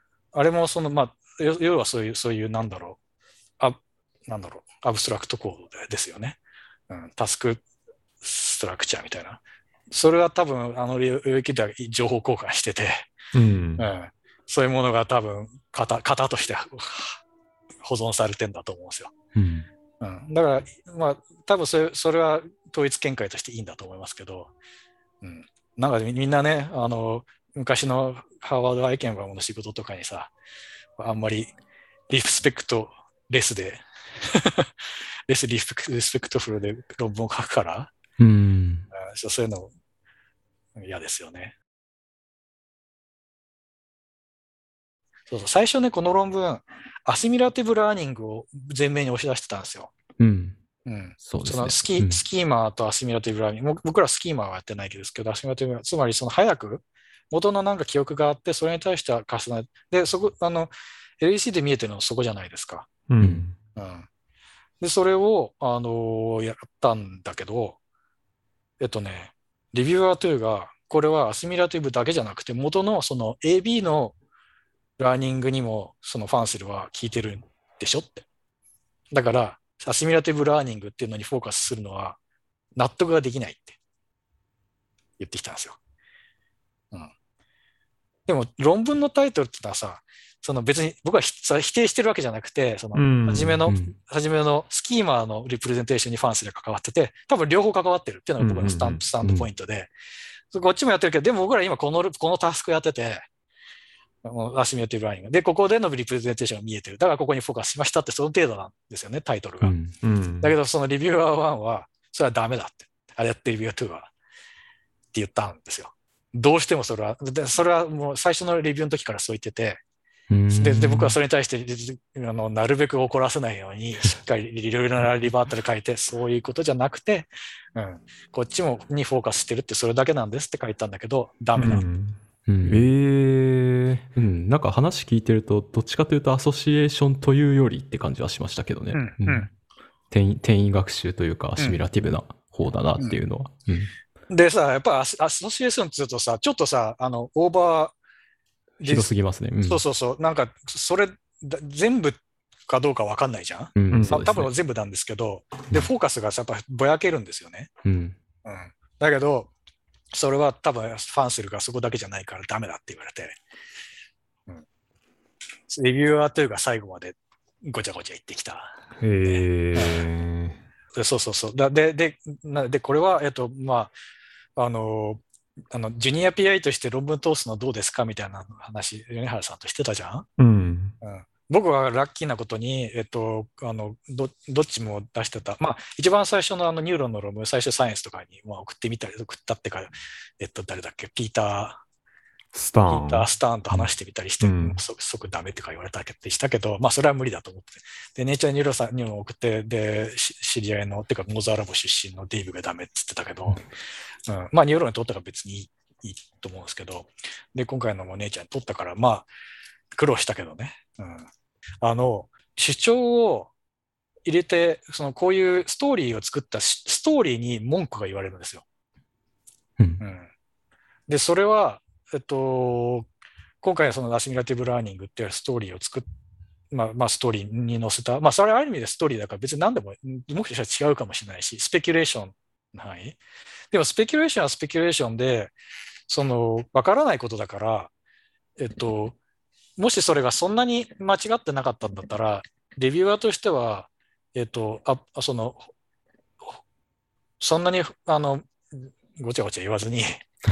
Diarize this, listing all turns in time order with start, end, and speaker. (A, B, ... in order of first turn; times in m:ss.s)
0:00.3-0:03.0 A
0:03.6-0:07.6 A
0:08.2-0:13.1 A
0:13.3-0:13.8 B
0:13.8-0:17.2 A
0:17.8-0:19.1 A
0:19.3-0:19.7 C
0:20.0-0:24.5 A
0:25.2-0:30.3 A
0:31.0-0:31.5 A
0:32.1-0:34.7 A
0:35.3-0:37.9 A
0:38.2-0:38.9 C
0:38.9-0:39.7 A
0:40.8-0:41.5 A
0:45.3-0:49.9 A
0:50.2-0:50.6 C
0:50.8-1:02.9 A
0:51.2-0:52.2 C
1:03.1-1:03.6 B
1:03.8-1:04.1 A
1:04.8-1:07.8 A
1:08.8-1:14.2 A
1:15.0-1:18.2 A
1:19.1-1:22.2 A
1:22.8-1:23.8 A
1:25.2-1:25.8 A
1:28.3-1:39.9 A
1:32.9-1:33.6 B
1:33.7-1:33.9 C
1:38.4-1:39.0 B
1:39.2-1:39.5 C
1:40.5-1:43.2 A
1:44.2-1:49.7 A
1:49.6-1:49.9 C
1:50.0-1:50.5 B
1:50.4-1:54.1 A
1:55.1-1:59.8 A
2:00.3-2:01.2 C
2:00.5-2:11.8 A
2:11.6-2:14.0 B
2:12.5-2:12.9 C
2:14.1-2:19.5 C
2:18.9-2:19.5 A
2:20.1-2:23.9 C
2:24.3-2:27.9 A
2:28.8-2:29.8 C
2:28.8-2:29.1 A
2:29.6-2:37.7 A
2:33.8-2:34.5 C
2:33.9-2:34.2 B
2:37.8-2:38.2 C
2:38.4-2:39.5 A
2:40.1-2:43.4 A
2:45.7-2:50.0 A
2:49.0-2:50.6 B
2:50.9-2:53.9 A
2:54.6-3:00.3 A
3:00.4-3:00.9 B
3:01.0-3:11.8 A
3:12.5-3:13.9 B
3:12.8-3:23.6 A
3:14.4-3:14.8 B
3:24.3-3:29.3 A
3:29.9-3:31.3 A
3:31.8-3:33.5 A
3:34.2-3:38.6 A
3:40.0-3:40.3 A
3:41.1-3:43.1 A
3:43.6-3:46.0 A
3:46.7-3:53.2 A
3:53.7-3:55.5 A
3:56.1-3:57.9 A
3:58.6-3:59.2 A
3:59.8-4:05.7 A
4:07.4-4:10.2 A